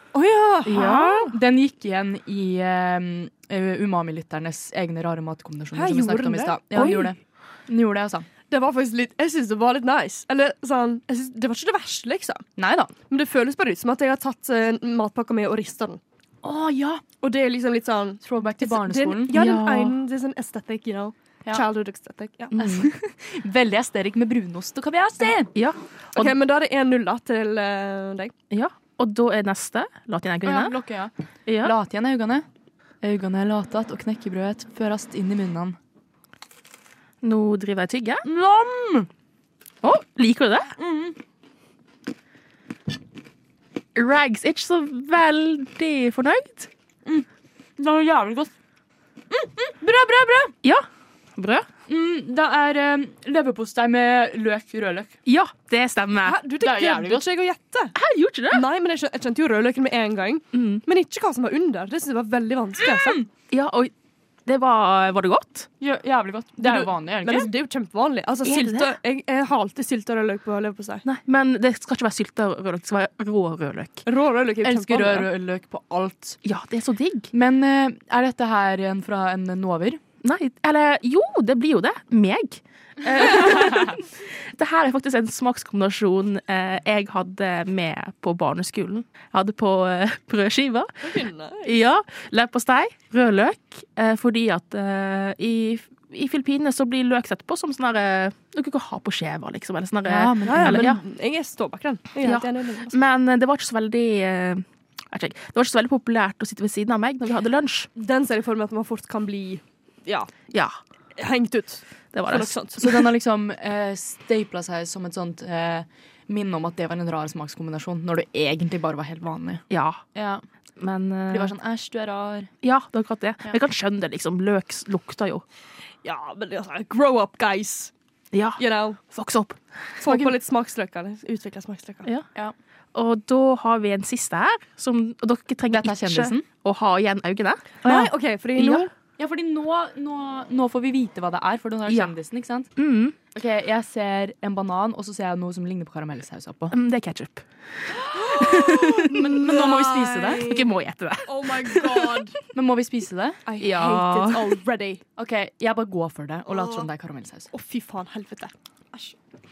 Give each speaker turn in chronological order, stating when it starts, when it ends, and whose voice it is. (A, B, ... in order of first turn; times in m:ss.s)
0:00.1-0:01.3 A
0:00.7-0:01.4 B
0:01.3-0:08.3 C
0:05.8-0:07.1 A
0:08.5-0:12.4 A
0:12.6-0:12.9 C
0:13.1-0:16.0 A
0:16.4-0:17.0 C
0:17.2-0:22.7 A
0:18.2-0:19.4 C
0:19.3-0:20.0 B
0:22.5-0:22.9 B
0:22.6-0:25.5 C
0:25.6-0:26.3 B
0:26.1-0:28.3 A
0:28.5-0:30.8 B
0:30.4-0:32.4 C
0:31.5-0:31.7 B
0:33.0-0:35.8 C
0:37.2-0:38.2 B
0:38.2-0:39.1 C
0:39.8-0:40.8 B
0:40.7-0:41.2 C
0:44.0-0:46.7 B
0:47.0-0:48.5 C
0:49.3-0:50.5 C
0:51.4-0:51.7 B
0:51.9-0:55.1 C
0:55.3-0:56.4 B
0:56.2-0:58.0 A
0:56.6-0:57.3 C
0:58.0-0:58.6 B
0:58.5-1:03.2 A
1:00.5-1:00.8 B
1:02.8-1:03.3 C
1:03.5-1:03.9 B
1:04.5-1:05.7 B
1:05.8-1:07.5 C
1:06.6-1:11.0 A
1:08.4-1:09.0 B
1:11.0-1:14.0 B
1:14.1-1:15.3 A
1:14.6-1:16.4 C
1:16.4-1:17.3 B
1:17.3-1:20.0 C
1:20.2-1:41.0 B
1:31.0-1:31.7 A
1:40.0-1:41.0 C
1:40.4-1:43.0 A
1:42.2-1:47.9 B
1:48.0-1:50.3 A
1:51.2-1:52.9 A
1:52.1-1:53.0 B
1:52.8-1:59.6 C
1:59.7-2:00.0 B
2:00.1-2:00.4 C
2:00.8-2:01.5 B
2:01.3-2:02.5 C
2:02.6-2:05.4 B
2:06.0-2:07.9 A
2:08.3-2:09.6 B
2:08.6-2:09.0 A
2:10.0-2:12.1 A
2:12.9-2:18.9 B
2:15.7-2:16.4 C
2:17.8-2:18.9 A
2:19.2-2:22.7 C
2:21.9-2:22.1 B
2:22.8-2:23.2 B
2:23.3-2:26.8 C
2:26.7-2:29.3 B
2:28.1-2:30.7 A
2:29.0-2:30.5 C
2:30.4-2:32.3 B
2:31.2-2:32.4 A
2:32.5-2:33.4 C
2:33.5-2:35.0 A
2:33.6-2:34.6 B
2:35.2-2:37.5 C
2:36.5-2:36.9 A
2:37.5-2:39.2 A